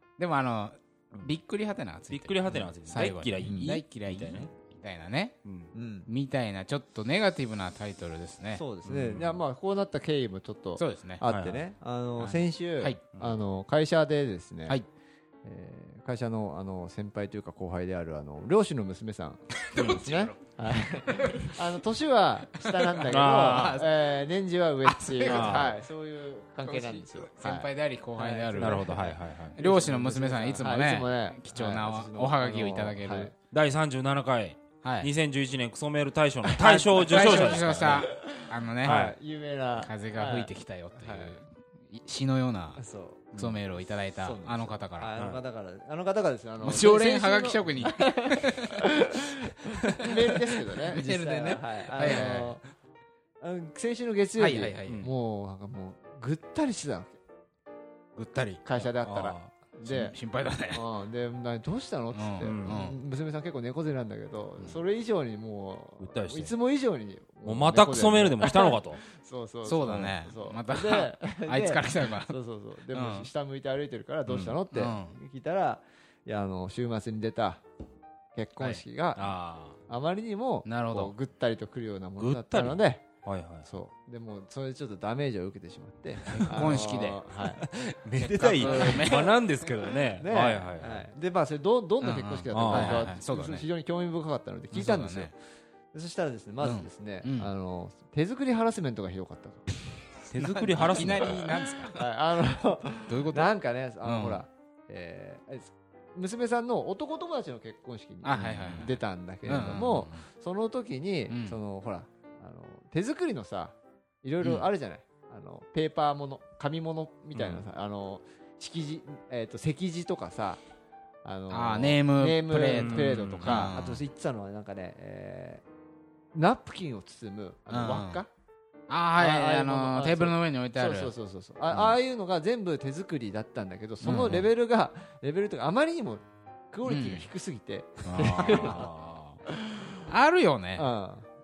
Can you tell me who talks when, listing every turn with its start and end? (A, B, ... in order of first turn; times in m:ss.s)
0:00.2-0:05.4 A
0:02.1-0:04.5 B
0:03.4-0:03.7 C
0:05.4-0:05.7 B
0:05.7-0:06.1 C
0:06.1-0:08.6 A
0:08.5-0:14.8 C
0:08.8-0:09.4 B
0:10.8-0:11.2 A
0:11.3-0:11.6 B
0:12.2-0:13.0 A
0:15.4-0:29.0 C
0:19.7-0:20.4 A
0:19.8-0:20.2 B
0:21.0-0:21.5 A
0:22.9-0:24.1 A
0:23.1-0:23.8 B
0:24.8-0:25.8 A
0:25.2-0:25.7 B
0:26.6-0:33.3 A
0:28.6-0:29.6 B
0:29.6-0:33.3 C
0:33.5-0:38.1 B
0:34.8-0:35.1 A
0:36.5-0:39.1 A
0:37.1-0:38.1 C
0:38.8-0:41.4 C
0:38.8-0:39.2 B
0:39.8-0:42.8 A
0:42.8-0:43.3 C
0:43.3-0:43.6 B
0:43.4-0:45.1 A
0:44.2-0:52.6 C
0:45.2-0:45.4 B
0:46.6-0:48.8 A
0:50.8-0:52.6 A
0:52.0-0:52.4 B
0:53.4-0:57.2 C
0:54.4-0:55.1 A
0:58.2-0:58.6 A
0:58.6-1:00.2 C
0:59.0-0:59.5 B
0:59.8-1:00.8 A
1:00.7-1:17.6 C
1:02.1-1:03.0 A
1:02.4-1:02.8 B
1:06.0-1:06.5 B
1:07.4-1:09.0 B
1:09.6-1:12.4 A
1:12.9-1:13.3 A
1:14.3-1:14.6 B
1:14.7-1:15.2 A
1:18.4-1:23.0 C
1:19.2-1:19.8 B
1:20.6-1:21.1 A
1:22.2-1:23.7 B
1:23.6-1:27.7 C
1:26.3-1:27.2 A
1:27.6-1:31.1 B
1:28.2-1:29.7 A
1:28.4-1:29.4 C
1:30.2-1:35.4 C
1:32.0-1:33.7 A
1:32.5-1:33.1 B
1:34.7-1:35.3 A
1:35.9-1:39.6 C
1:36.6-1:37.5 A
1:40.3-1:41.5 B
1:40.3-1:42.0 A
1:40.9-2:00.6 C
1:43.1-1:43.5 A
1:44.0-1:44.4 A
1:48.2-1:50.2 A
1:48.4-1:48.7 B
1:51.3-1:51.6 A
1:57.4-1:57.6 B
2:01.2-2:05.6 C
2:01.5-2:04.0 A
2:02.7-2:03.8 B
2:06.3-2:08.3 C
2:07.7-2:08.2 A
2:08.9-2:11.1 A
2:09.2-2:18.9 C
2:11.7-2:12.0 A
2:14.0-2:14.5 A
2:16.9-2:17.3 A
2:18.0-2:18.9 A
2:18.4-2:19.4 B
2:19.5-2:19.9 C
2:20.1-2:20.9 A
2:20.8-2:21.3 C